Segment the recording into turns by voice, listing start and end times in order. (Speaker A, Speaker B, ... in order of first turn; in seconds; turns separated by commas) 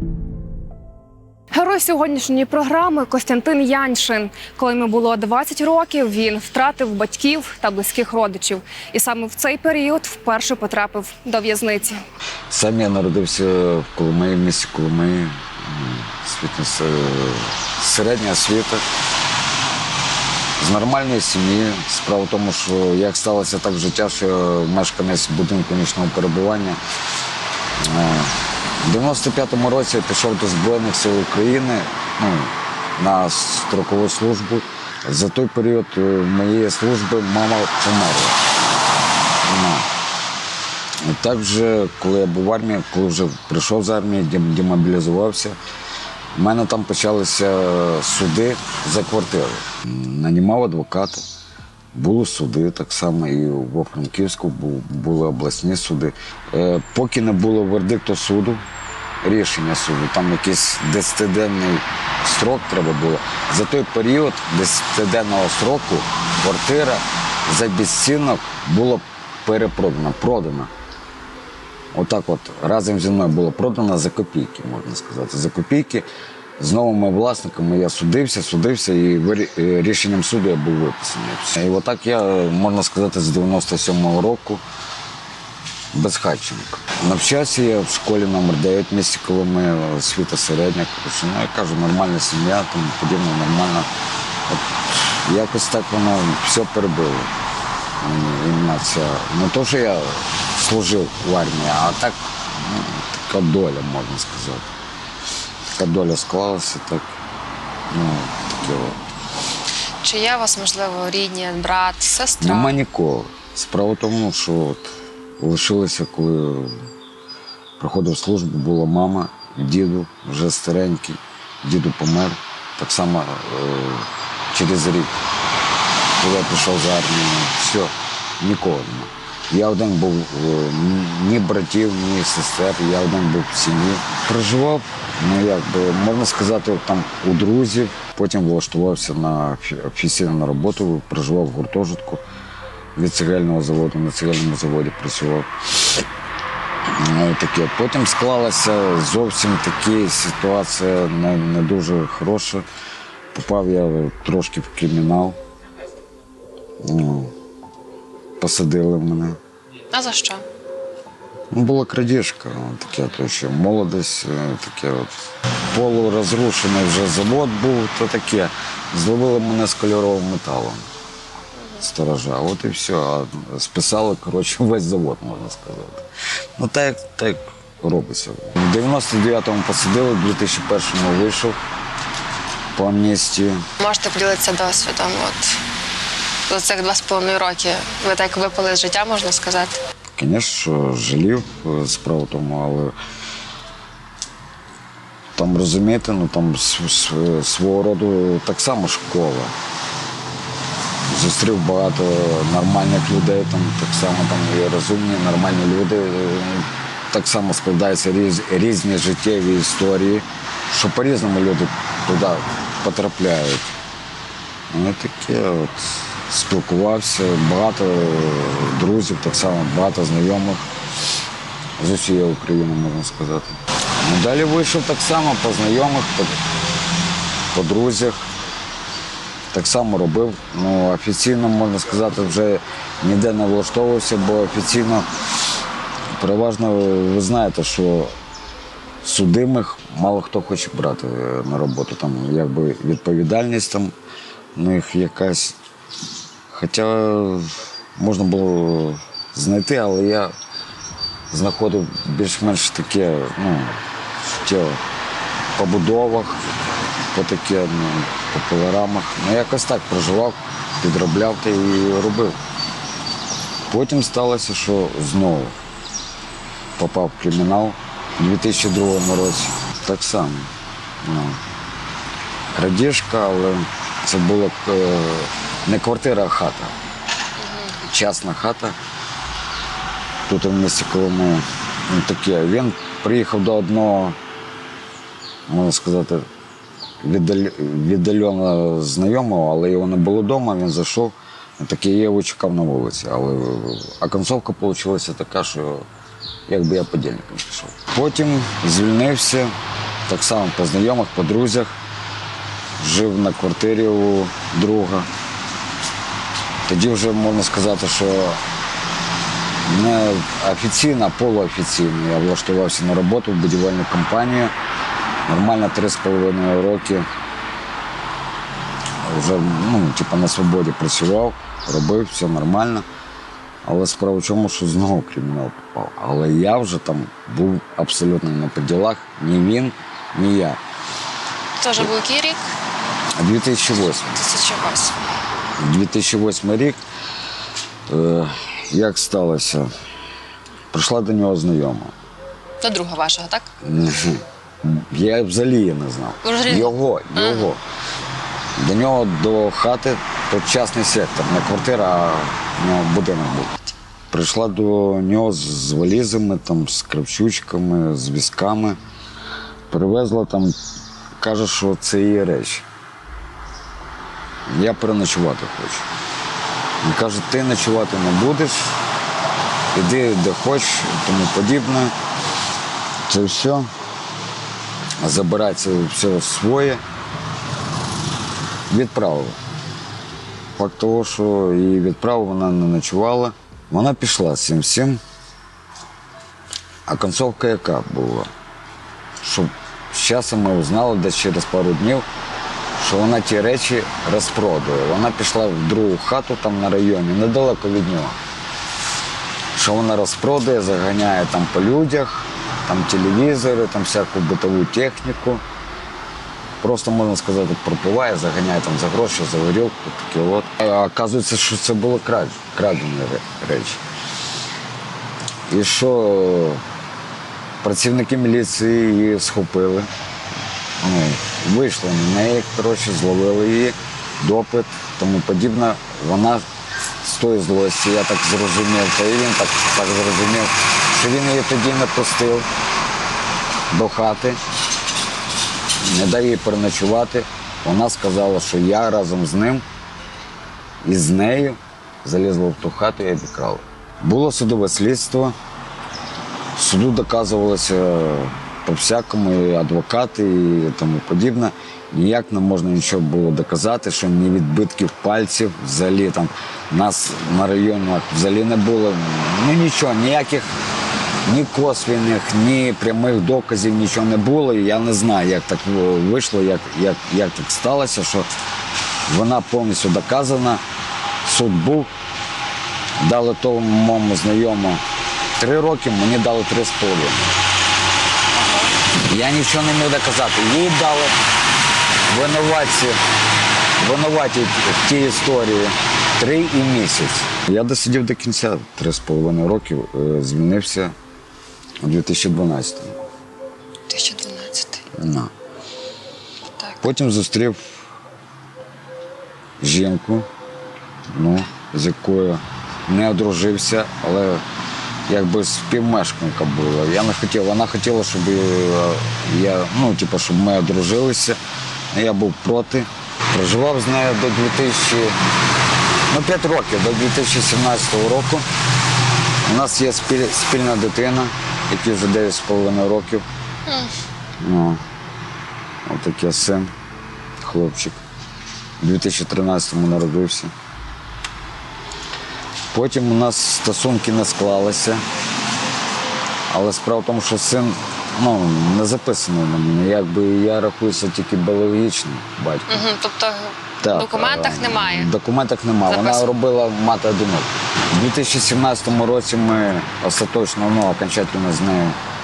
Speaker A: 1.5-12.0, Speaker B: 12.5-18.8, Speaker B: 20.6-26.8, Speaker B: 27.8-38.4, Speaker B: 39.4-39.9, Speaker B: 41.0-45.6, Speaker B: 46.4-51.2, Speaker B: 51.9-58.6, Speaker B: 59.2-70.7, Speaker B: 71.9-76.0, Speaker B: 76.6-84.6, Speaker B: 85.9-93.9, Speaker B: 94.5-97.3, Speaker B: 98.0-104.7, Speaker B: 105.8-107.1, Speaker B: 107.9-109.0, Speaker C: 110.0-112.7, Speaker B: 112.4-116.9, Speaker B: 117.8-125.2, Speaker B: 126.2-142.2, Speaker B: 142.9-145.5, Speaker B: 146.9-152.7, Speaker B: 153.3-155.4, Speaker B: 156.8-157.3, Speaker B: 158.4-159.4, Speaker C: 159.9-160.4, Speaker B: 161.5-165.1, Speaker B: 165.7-170.9, Speaker B: 171.8-176.1, Speaker B: 176.6-181.6, Speaker B: 182.8-183.7, Speaker C: 183.8-185.6, Speaker C: 186.5-189.8, Speaker B: 190.2-192.9, Speaker B: 195.4-199.5, Speaker B: 201.1-213.7, Speaker B: 214.7-220.7, Speaker B: 221.8-226.4, Speaker B: 227.5-228.3, Speaker B: 229.5-235.1, Speaker B: 236.2-238.2, Speaker B: 239.0-243.9, Speaker B: 244.6-245.6, Speaker B: 246.5-250.3, Speaker B: 251.3-254.8, Speaker B: 255.6-256.4, Speaker B: 257.1-262.4, Speaker B: 263.7-265.6, Speaker B: 266.8-271.4, Speaker B: 272.6-276.7, Speaker C: 277.4-277.8, Speaker B: 277.8-278.8, Speaker B: 280.3-284.2, Speaker B: 285.5-286.3, Speaker B: 287.0-295.9, Speaker B: 296.5-299.5, Speaker B: 300.1-301.8, Speaker B: 302.8-305.1, Speaker B: 306.7-308.4, Speaker B: 309.6-314.5, Speaker B: 315.3-317.1, Speaker B: 319.0-322.9, Speaker B: 323.6-330.6, Speaker C: 331.6-332.5, Speaker B: 333.2-334.2, Speaker C: 334.1-334.9, Speaker B: 335.6-336.8, Speaker B: 337.9-339.7, Speaker B: 340.7-341.9, Speaker C: 342.6-343.5, Speaker B: 343.6-347.6, Speaker C: 346.2-347.5, Speaker B: 348.6-353.5, Speaker B: 354.1-358.8, Speaker B: 359.7-360.6, Speaker B: 361.2-362.6, Speaker B: 364.5-365.9, Speaker B: 366.8-368.8, Speaker B: 369.7-371.9, Speaker B: 373.1-373.7, Speaker B: 375.0-376.8, Speaker B: 378.7-379.4, Speaker B: 380.6-385.0, Speaker B: 386.9-388.3, Speaker B: 389.2-392.1, Speaker B: 392.8-398.2, Speaker B: 399.6-405.4, Speaker B: 406.6-413.8, Speaker B: 415.5-416.6, Speaker B: 417.6-419.9, Speaker B: 420.8-426.4, Speaker B: 427.0-432.5, Speaker B: 433.7-434.4, Speaker B: 435.8-439.6, Speaker B: 440.8-445.4, Speaker B: 446.6-460.5, Speaker B: 461.3-468.3, Speaker B: 469.1-470.6, Speaker B: 471.2-471.9, Speaker B: 473.0-474.8, Speaker B: 475.4-477.4, Speaker C: 478.3-478.7, Speaker B: 479.1-481.1, Speaker B: 482.1-483.0, Speaker B: 483.8-490.9, Speaker B: 491.8-493.1, Speaker C: 493.9-494.9, Speaker B: 495.0-495.3, Speaker B: 496.8-497.7, Speaker B: 499.6-500.3, Speaker B: 501.1-504.4, Speaker B: 505.1-511.4, Speaker B: 511.9-515.2, Speaker B: 516.1-518.5, Speaker B: 519.5-523.2, Speaker C: 523.7-523.9, Speaker B: 524.4-524.8, Speaker B: 525.9-526.7, Speaker B: 527.4-528.0, Speaker B: 528.8-530.5, Speaker B: 532.7-535.0, Speaker B: 536.5-542.9, Speaker C: 542.7-545.1, Speaker B: 543.8-552.0, Speaker C: 545.9-546.2